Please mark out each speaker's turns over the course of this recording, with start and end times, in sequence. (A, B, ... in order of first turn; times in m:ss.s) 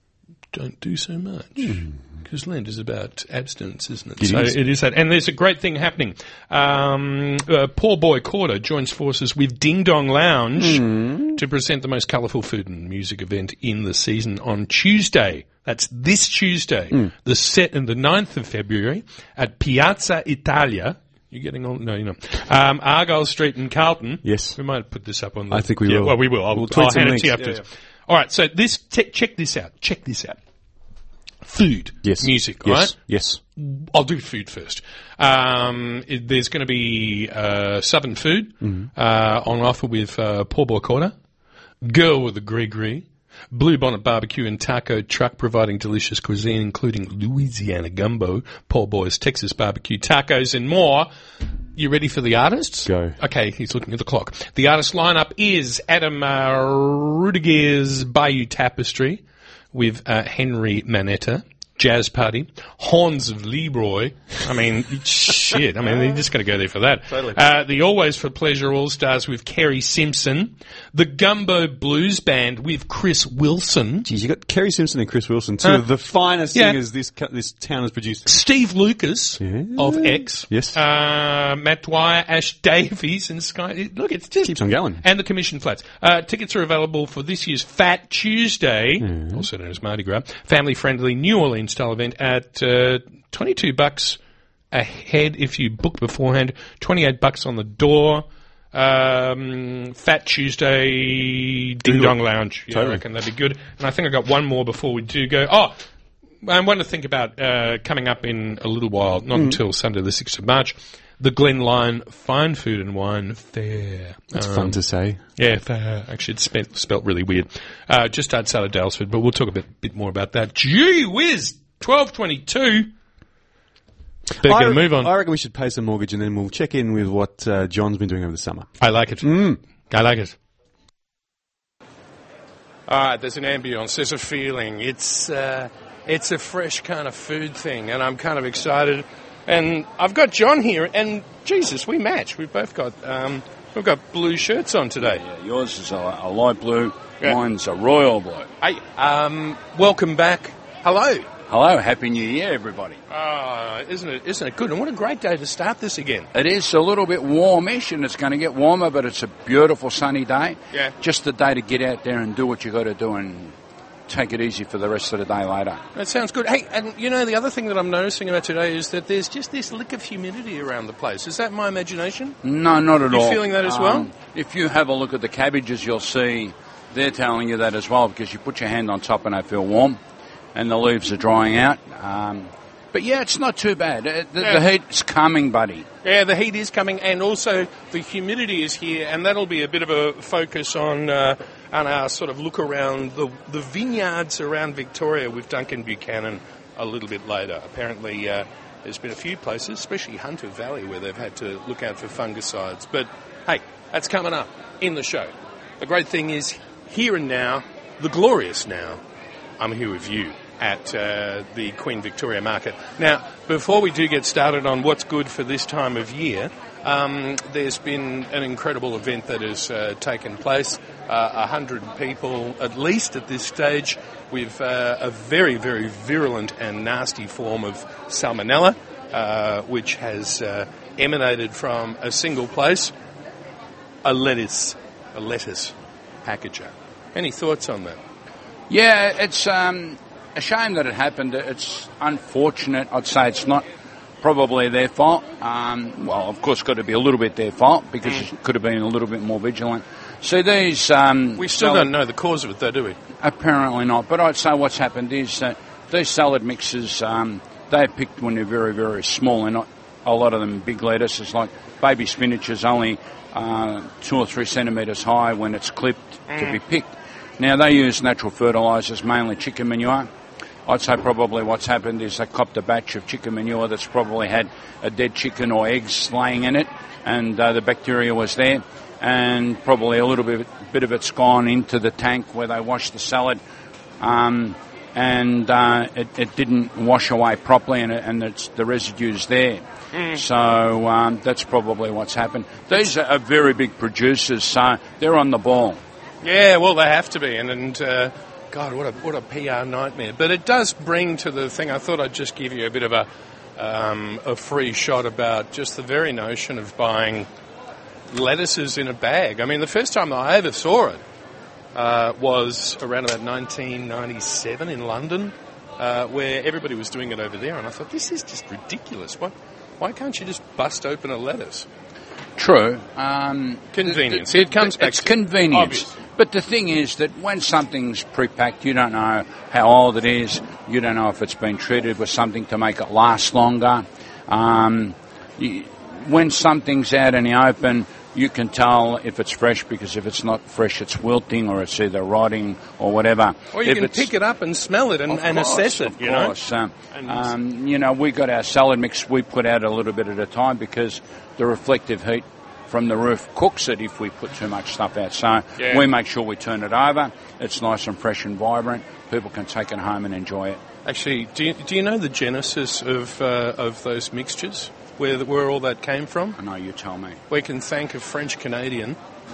0:00.5-0:30.4 A
0:04.2-0:04.6 B
0:10.6-0:11.4 B
0:24.2-0:24.6 B
0:25.5-0:27.6 B
0:31.4-0:33.0 A
0:32.0-0:33.4 B
0:33.6-0:41.1 A
0:38.6-0:38.9 B
0:41.8-0:51.1 A
0:51.8-0:59.2 A
0:52.8-0:53.2 B
0:59.7-1:14.1 A
1:14.0-1:18.4 B
1:18.3-1:34.2 A
1:19.4-1:20.8 B
1:24.4-1:25.0 B
1:29.0-1:29.5 B
1:34.7-1:45.8 A
1:41.8-1:43.0 B
1:46.4-1:54.8 A
1:49.3-1:49.6 B
1:54.3-1:55.2 B
1:55.4-2:02.9 A
2:04.4-2:08.7 B
2:04.4-2:05.1 A
2:08.8-2:10.4 A
2:09.2-2:09.6 B
2:12.9-2:25.2 A
2:25.0-2:28.5 C
2:28.6-2:31.3 A
2:31.5-2:33.0 C
2:33.1-2:36.3 A
2:36.3-2:43.5 C
2:44.1-2:45.8 C
2:46.0-2:52.4 A
2:52.4-3:00.0 C
2:53.1-2:54.1 A
3:00.6-3:05.9 C
3:06.0-3:29.0 A
3:29.6-3:52.9 A
3:54.0-3:58.0 A
3:58.7-4:03.6 C
4:04.2-4:11.9 C
4:11.4-4:13.0 A
4:13.2-4:30.1 C
4:26.3-4:26.6 A
4:30.7-4:43.4 C
4:44.0-4:49.6 C
4:49.9-4:50.2 A
4:50.1-4:55.8 C
4:56.2-5:07.3 A
5:08.1-5:11.0 A
5:11.7-5:21.7 A
5:22.4-5:44.1 C
5:23.7-5:26.0 A
5:43.5-5:46.4 A
5:45.1-6:00.6 C
5:46.9-5:47.2 A
5:55.6-5:55.9 A
6:00.8-6:06.4 A
6:06.4-6:07.2 C
6:07.3-6:09.0 A